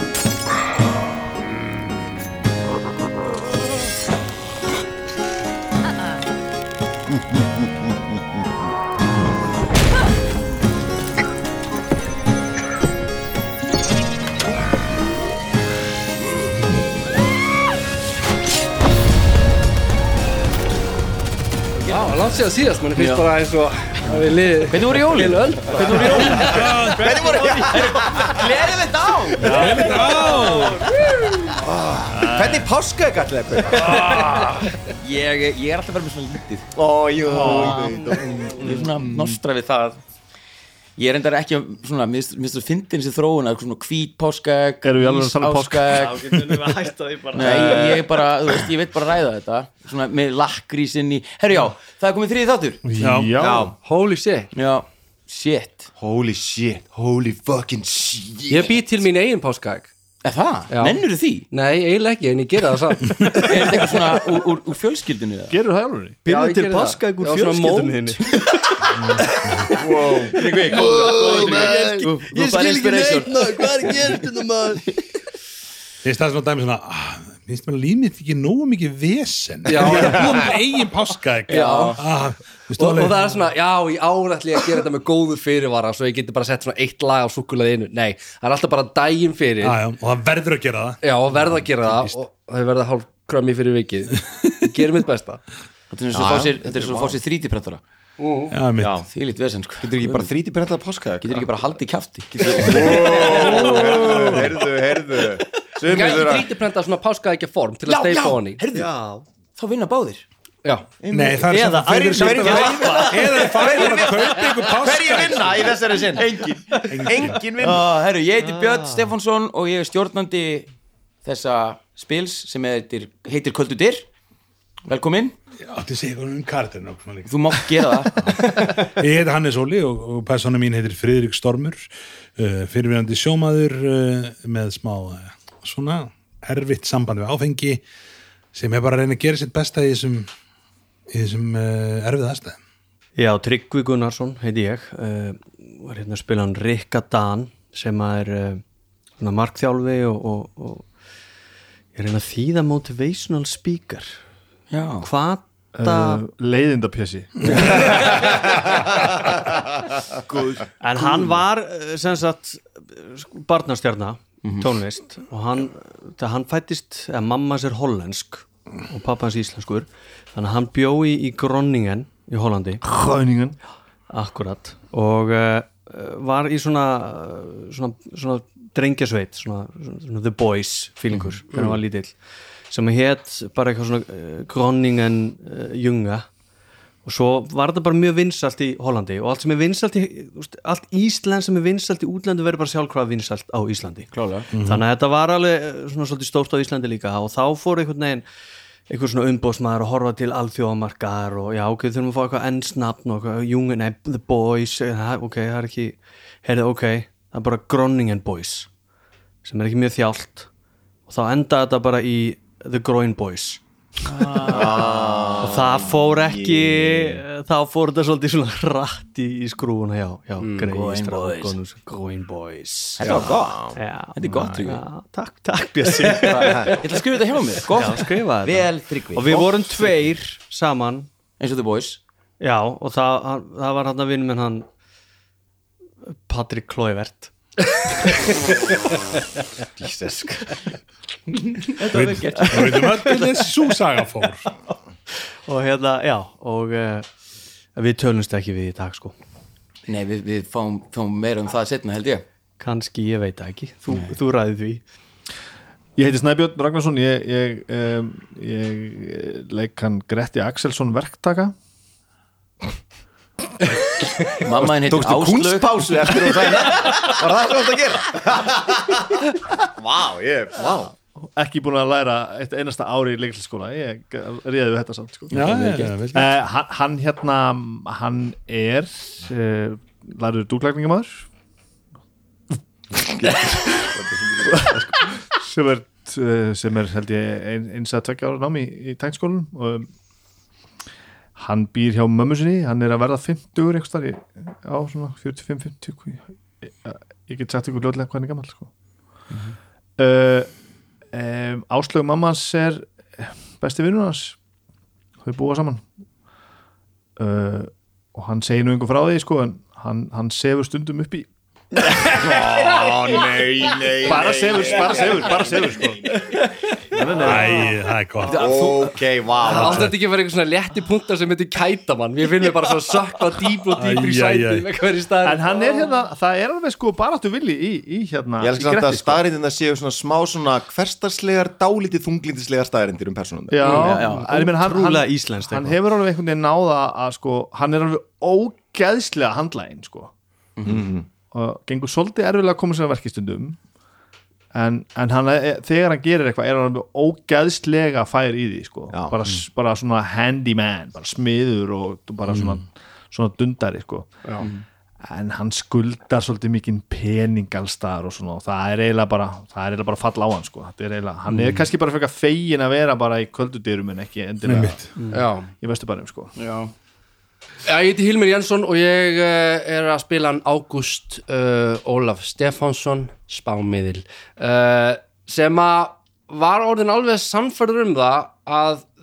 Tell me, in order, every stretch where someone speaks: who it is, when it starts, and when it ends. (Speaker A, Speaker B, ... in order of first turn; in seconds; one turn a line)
Speaker A: 21.8-22.1
Speaker B: 21.9-26.7
Speaker A: 22.9-23.2
Speaker A: 24.7-31.2
Speaker C: 26.1-27.1
Speaker D: 26.7-28.5
Speaker E: 27.3-27.7
Speaker C: 29.4-30.8
Speaker F: 29.4-29.8
Speaker D: 31.5-34.1
Speaker F: 32.1-32.7
Speaker C: 33.7-34.7
Speaker A: 33.9-34.4
Speaker A: 35.0-36.7
Speaker D: 36.7-38.7
Speaker F: 37.2-37.9
Speaker E: 37.5-38.8
Speaker A: 38.6-40.0
Speaker A: 41.0-46.7
Speaker F: 44.8-46.1
Speaker E: 46.0-48.7
Speaker A: 47.3-52.9
Speaker D: 47.4-48.0
Speaker F: 52.8-53.7
Speaker C: 53.0-53.4
Speaker D: 53.4-53.7
Speaker B: 53.8-54.5
Speaker A: 54.5-55.9
Speaker D: 56.0-58.8
Speaker B: 58.5-59.9
Speaker A: 60.2-61.5
Speaker B: 60.7-63.8
Speaker A: 63.4-65.5
Speaker F: 65.5-66.2
Speaker E: 66.2-68.5
Speaker B: 66.2-68.2
Speaker C: 69.0-69.7
Speaker D: 69.7-70.6
Speaker E: 69.9-75.0
Speaker A: 70.3-74.2
Speaker C: 76.0-83.2
Speaker B: 79.7-80.5
Speaker A: 81.5-82.0
Speaker B: 81.5-81.9
Speaker B: 82.8-89.8
Speaker C: 89.6-92.1
Speaker B: 91.0-95.4
Speaker A: 95.9-97.8
Speaker D: 96.1-97.2
Speaker B: 98.2-98.5
Speaker C: 98.5-99.0
Speaker D: 98.8-99.1
Speaker A: 99.1-100.3
Speaker D: 99.8-101.5
Speaker A: 101.2-104.5
Speaker D: 102.3-106.5
Speaker B: 103.3-104.1
Speaker B: 105.8-108.6
Speaker A: 107.9-108.9
Speaker E: 108.7-109.2
Speaker A: 109.5-110.2
Speaker D: 111.0-117.8
Speaker C: 111.1-115.7
Speaker E: 111.8-112.9
Speaker A: 112.2-113.9
Speaker A: 116.1-120.7
Speaker C: 116.9-117.4
Speaker E: 118.4-119.1
Speaker A: 121.2-124.1
Speaker A: 124.9-125.4
Speaker C: 125.6-137.8
Speaker A: 127.2-128.3
Speaker C: 138.5-140.3
Speaker C: 141.1-142.6
Speaker E: 143.2-148.6
Speaker E: 149.2-150.9
Speaker E: 151.9-154.1
Speaker A: 154.7-155.1
Speaker E: 155.0-156.2
Speaker F: 155.8-158.3
Speaker E: 157.7-158.1
Speaker E: 160.8-172.8
Speaker A: 164.4-164.7
Speaker F: 172.8-173.6
Speaker E: 174.1-182.2
Speaker E: 182.7-186.3
Speaker E: 187.0-198.2
Speaker A: 194.1-194.5
Speaker C: 194.5-194.8
Speaker E: 198.9-208.7
Speaker E: 209.4-210.5
Speaker E: 211.1-213.6
Speaker A: 214.1-215.1
Speaker E: 214.2-214.6
Speaker D: 214.4-217.2
Speaker E: 215.4-227.0
Speaker B: 220.4-220.7
Speaker A: 220.7-221.6
Speaker A: 223.0-223.4
Speaker D: 223.0-223.8
Speaker A: 224.1-224.8
Speaker A: 225.9-229.8
Speaker D: 226.4-226.8
Speaker E: 227.6-231.1
Speaker A: 231.4-232.0
Speaker E: 232.4-234.7
Speaker E: 236.1-237.3
Speaker E: 238.0-238.3
Speaker E: 240.0-240.3
Speaker A: 241.6-243.2
Speaker C: 241.9-244.4
Speaker E: 245.5-247.1
Speaker E: 247.7-249.2
Speaker A: 249.9-252.2
Speaker E: 252.6-254.8
Speaker F: 256.0-261.5
Speaker A: 264.4-266.4
Speaker D: 264.6-270.9
Speaker F: 271.2-275.5
Speaker A: 275.3-275.9
Speaker C: 275.3-276.4
Speaker F: 276.1-281.2
Speaker D: 282.9-284.9
Speaker F: 284.5-284.8
Speaker F: 285.3-289.9
Speaker F: 291.4-298.7
Speaker F: 300.0-300.5
Speaker F: 301.1-304.4
Speaker F: 305.2-305.8
Speaker F: 307.2-311.3
Speaker D: 312.0-315.8
Speaker F: 314.0-316.1
Speaker A: 314.8-315.1
Speaker F: 316.9-317.6
Speaker C: 317.2-318.4
Speaker A: 318.2-319.0
Speaker D: 318.3-319.9
Speaker B: 319.4-325.9
Speaker C: 319.6-319.9
Speaker C: 323.8-324.6
Speaker F: 325.2-328.6
Speaker D: 328.4-333.8
Speaker A: 328.6-329.1
Speaker F: 333.5-340.1
Speaker B: 333.6-334.0
Speaker A: 333.6-334.3
Speaker E: 333.8-335.8
Speaker A: 340.6-340.8
Speaker D: 340.6-341.1
Speaker F: 341.3-343.6
Speaker F: 344.5-354.2
Speaker D: 348.9-349.2
Speaker F: 355.0-364.8
Speaker C: 364.4-364.9
Speaker E: 365.0-365.2
Speaker B: 365.1-365.5
Speaker F: 365.6-366.3
Speaker A: 366.4-366.7
Speaker B: 367.6-378.9